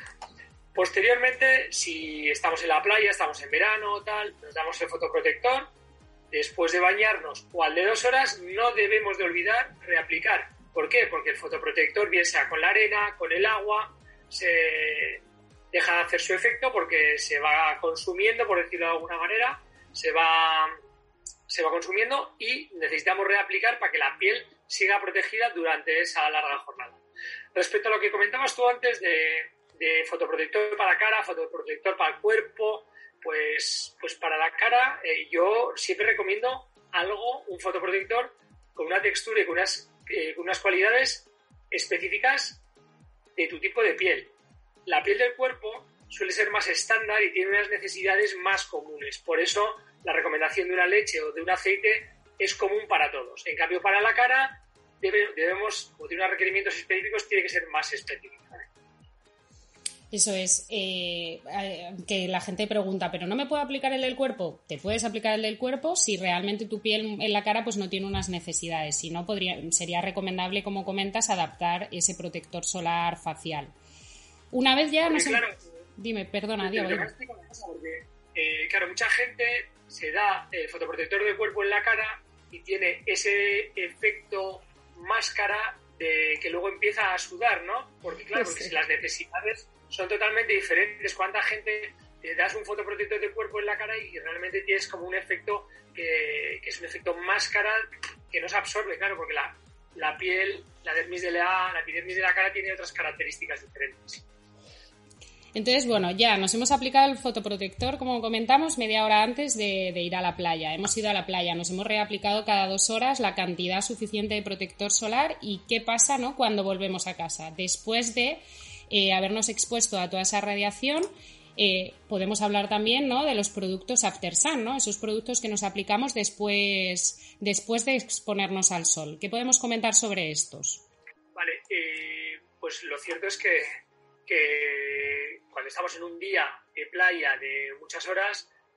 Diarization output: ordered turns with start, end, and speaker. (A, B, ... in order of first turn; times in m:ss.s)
0:00.7-0:05.7 A
0:06.3-0:20.7 A
0:21.5-0:27.0 A
0:27.5-0:42.6 A
0:43.4-0:44.3 A
0:44.8-0:58.7 A
1:00.1-1:13.7 B
1:14.5-1:15.4 B
1:15.1-1:15.5 A
1:16.0-1:17.1 B
1:16.6-1:44.2 A
1:28.4-1:28.7 B
1:45.5-2:10.8 B
2:11.3-2:18.5 A